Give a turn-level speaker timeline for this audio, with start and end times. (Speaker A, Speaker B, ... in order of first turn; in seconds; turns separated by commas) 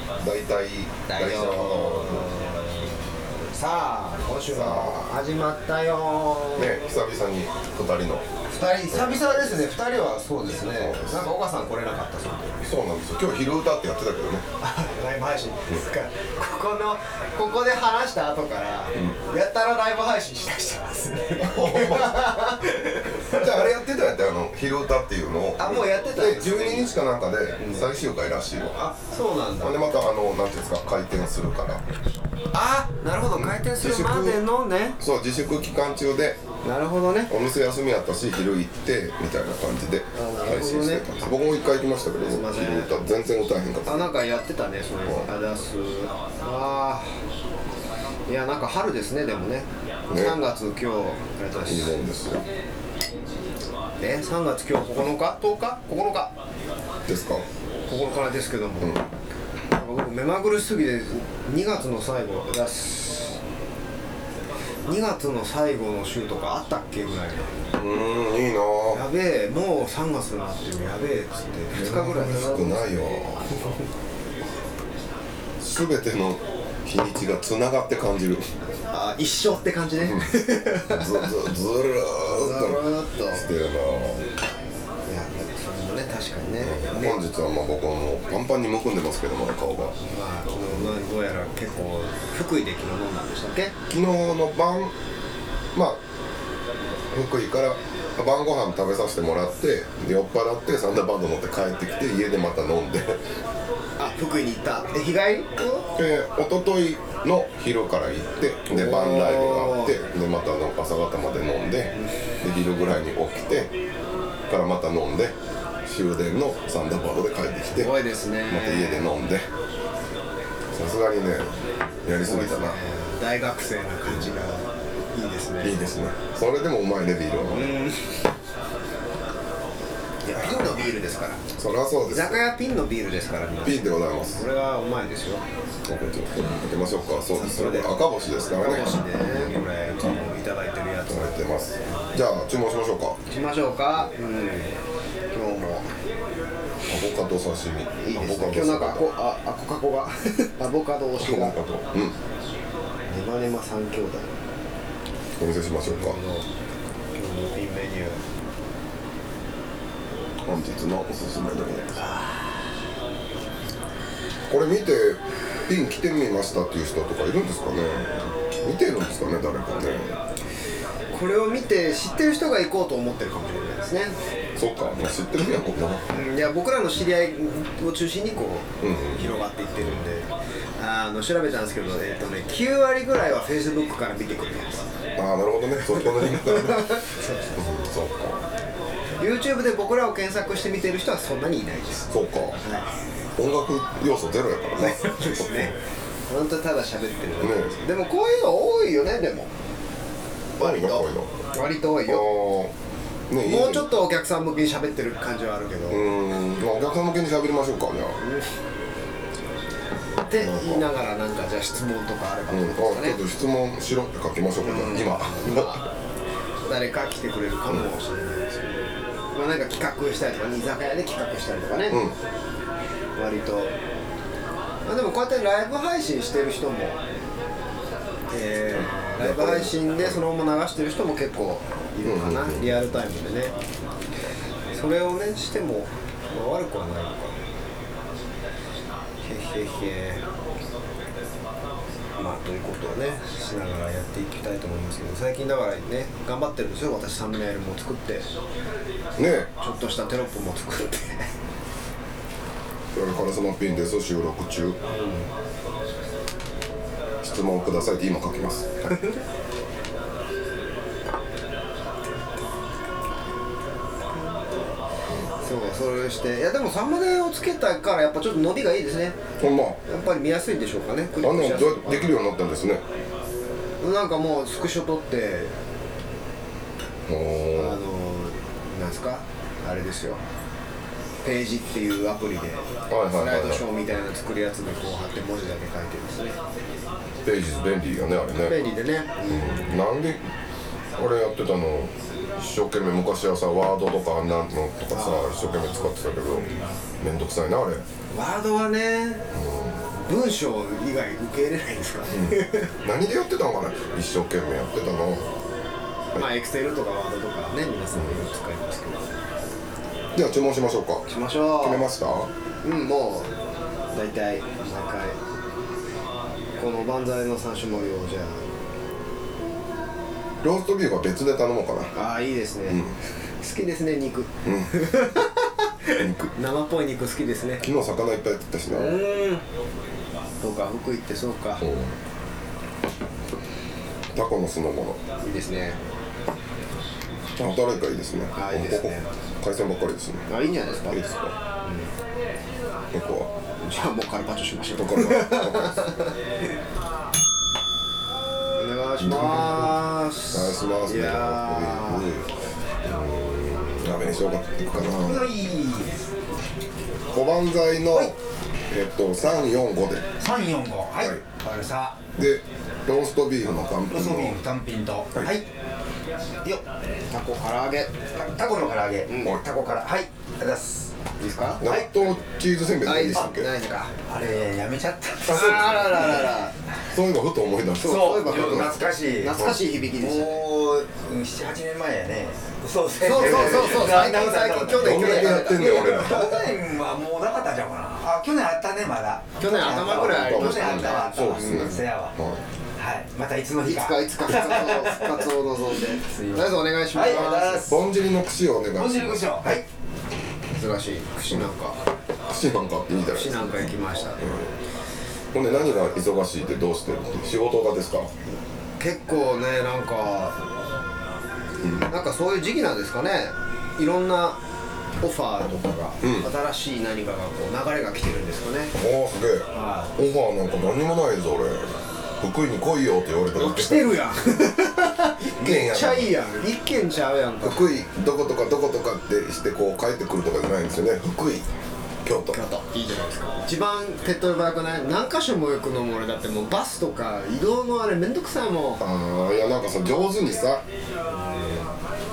Speaker A: 0.1-2.3, Speaker B: 1.1-6.7, Speaker A: 4.5-5.2, Speaker A: 6.5-8.3, Speaker B: 8.5-12.7, Speaker A: 8.9-9.7, Speaker A: 10.7-11.3, Speaker A: 12.6-14.4, Speaker B: 14.6-23.7, Speaker A: 21.4-22.4, Speaker A: 23.2-28.7, Speaker B: 25.6-26.9, Speaker B: 27.6-27.8, Speaker B: 28.7-29.8, Speaker A: 29.6-31.8, Speaker B: 32.5-35.0, Speaker A: 33.4-34.4, Speaker A: 35.0-36.4, Speaker B: 36.6-37.3, Speaker A: 37.3-44.1, Speaker B: 40.1-41.2, Speaker B: 42.2-43.0, Speaker B: 43.8-47.2, Speaker B: 48.3-52.0, Speaker A: 50.1-50.4, Speaker A: 51.6-52.5, Speaker B: 54.0-56.3, Speaker A: 57.1-57.5, Speaker B: 57.9-59.0, Speaker B: 59.7-63.4, Speaker B: 64.9-67.8, Speaker A: 67.8-69.0, Speaker B: 68.9-73.8, Speaker A: 71.7-73.8, Speaker A: 75.6-78.5, Speaker B: 78.9-81.3, Speaker A: 80.0-84.3, Speaker B: 82.2-83.5, Speaker B: 85.1-87.2, Speaker A: 86.6-90.0, Speaker B: 90.0-93.8, Speaker A: 90.7-91.0, Speaker A: 93.9-94.9, Speaker A: 95.7-96.0, Speaker A: 97.1-103.2, Speaker B: 104.0-105.9, Speaker A: 106.0-113.7, Speaker B: 108.7-110.0, Speaker A: 114.5-117.9, Speaker B: 117.7-119.1, Speaker A: 118.5-119.5, Speaker A: 120.7-121.5, Speaker A: 122.0-122.8, Speaker B: 122.2-125.8, Speaker A: 125.6-127.7, Speaker B: 127.5-128.2, Speaker B: 130.2-131.4, Speaker A: 130.3-130.7, Speaker A: 131.5-132.4, Speaker B: 132.1-135.4, Speaker A: 133.6-134.4, Speaker A: 135.8-140.1, Speaker B: 137.3-138.0, Speaker B: 138.5-142.1, Speaker A: 141.1-143.2, Speaker B: 143.3-144.8, Speaker B: 145.3-145.9, Speaker A: 146.9-149.1, Speaker B: 148.0-151.6, Speaker A: 151.2-152.2, Speaker B: 153.1-154.3, Speaker A: 155.4-156.2, Speaker B: 155.8-156.5, Speaker B: 157.1-158.2, Speaker A: 160.4-162.0, Speaker B: 161.9-162.6, Speaker A: 164.5-170.2, Speaker B: 171.1-174.2, Speaker A: 174.6-176.1, Speaker B: 176.1-184.9, Speaker A: 178.8-180.0, Speaker A: 185.2-187.0, Speaker B: 186.0-187.6, Speaker A: 187.6-188.4, Speaker B: 189.2-192.9, Speaker A: 192.1-192.6, Speaker A: 193.4-195.7, Speaker B: 194.8-199.5, Speaker A: 197.4-197.8, Speaker A: 200.6-201.3, Speaker B: 200.6-202.3, Speaker A: 202.1-202.7, Speaker A: 203.3-203.9, Speaker B: 203.4-206.1, Speaker A: 205.9-208.2, Speaker B: 210.2-213.2, Speaker A: 210.4-210.9, Speaker A: 212.5-215.8, Speaker B: 214.6-215.8, Speaker B: 216.7-222.0, Speaker A: 221.9-222.2, Speaker B: 223.2-223.7, Speaker B: 224.8-227.0, Speaker B: 228.3-233.5, Speaker A: 228.8-230.2, Speaker A: 232.0-232.9, Speaker B: 234.7-237.4, Speaker B: 239.2-240.2, Speaker B: 242.2-248.3, Speaker A: 249.2-249.5, Speaker B: 249.6-251.3, Speaker A: 252.9-254.8, Speaker B: 254.9-255.3, Speaker A: 257.2-258.9, Speaker B: 264.1-264.6, Speaker B: 265.4-269.2, Speaker A: 269.4-269.8, Speaker B: 269.9-272.2, Speaker A: 271.2-272.8, Speaker B: 273.8-275.5, Speaker A: 277.1-277.8, Speaker B: 277.5-280.2, Speaker B: 281.2-286.4, Speaker A: 282.9-283.6, Speaker A: 287.2-288.6, Speaker B: 288.4-289.8, Speaker A: 289.3-290.2, Speaker A: 291.0-297.9, Speaker B: 294.9-296.8, Speaker B: 298.1-299.2, Speaker A: 299.3-299.8, Speaker B: 299.9-302.7, Speaker A: 302.1-305.3, Speaker B: 306.1-309.1, Speaker A: 307.9-308.2, Speaker A: 310.1-311.1, Speaker B: 311.1-311.9, Speaker A: 311.6-312.3, Speaker B: 312.6-313.3, Speaker B: 313.9-315.2, Speaker B: 316.6-318.4, Speaker A: 320.4-321.9, Speaker B: 321.9-327.6, Speaker A: 322.7-322.9, Speaker A: 324.4-324.7, Speaker A: 326.0-326.3, Speaker A: 327.6-329.0, Speaker B: 328.7-329.4, Speaker B: 330.4-331.6, Speaker A: 331.6-331.9, Speaker A: 334.1-335.0, Speaker B: 335.2-335.8, Speaker A: 337.4-340.3, Speaker B: 338.4-339.1, Speaker B: 340.3-341.0, Speaker A: 340.9-341.4, Speaker B: 341.6-341.9, Speaker A: 342.9-343.3, Speaker B: 343.6-346.1, Speaker A: 344.8-345.8, Speaker B: 348.6-352.1, Speaker A: 349.0-349.8, Speaker A: 350.3-352.3, Speaker A: 352.8-355.3, Speaker C: 354.8-356.1, Speaker A: 357.1-358.1, Speaker A: 358.7-360.1, Speaker C: 360.2-361.9, Speaker A: 362.2-364.4, Speaker C: 363.9-365.4, Speaker B: 366.4-367.9, Speaker C: 368.1-370.9, Speaker B: 369.1-369.7, Speaker B: 371.2-371.7, Speaker A: 371.6-373.5, Speaker B: 372.8-373.9, Speaker C: 374.1-376.3, Speaker B: 375.2-376.6, Speaker A: 375.3-375.7, Speaker A: 376.9-378.8, Speaker B: 377.8-380.5, Speaker C: 377.8-392.1, Speaker A: 379.4-379.6, Speaker B: 383.0-386.5, Speaker A: 384.7-386.3, Speaker B: 389.4-391.8, Speaker A: 389.9-392.4, Speaker C: 392.8-395.3, Speaker B: 393.6-397.7, Speaker C: 395.9-397.9, Speaker A: 397.1-399.4, Speaker C: 398.8-399.6, Speaker B: 400.5-401.8, Speaker A: 402.3-404.5, Speaker B: 403.1-404.2, Speaker A: 405.3-408.1, Speaker B: 408.8-410.4, Speaker A: 411.6-411.9, Speaker B: 411.8-414.4, Speaker B: 415.0-418.8, Speaker A: 416.0-416.3, Speaker A: 418.8-423.9, Speaker B: 419.5-419.9, Speaker B: 423.4-427.8, Speaker A: 425.3-426.1, Speaker A: 427.4-431.5, Speaker A: 432.0-432.4, Speaker B: 432.3-438.8, Speaker A: 438.8-440.6, Speaker B: 441.1-441.7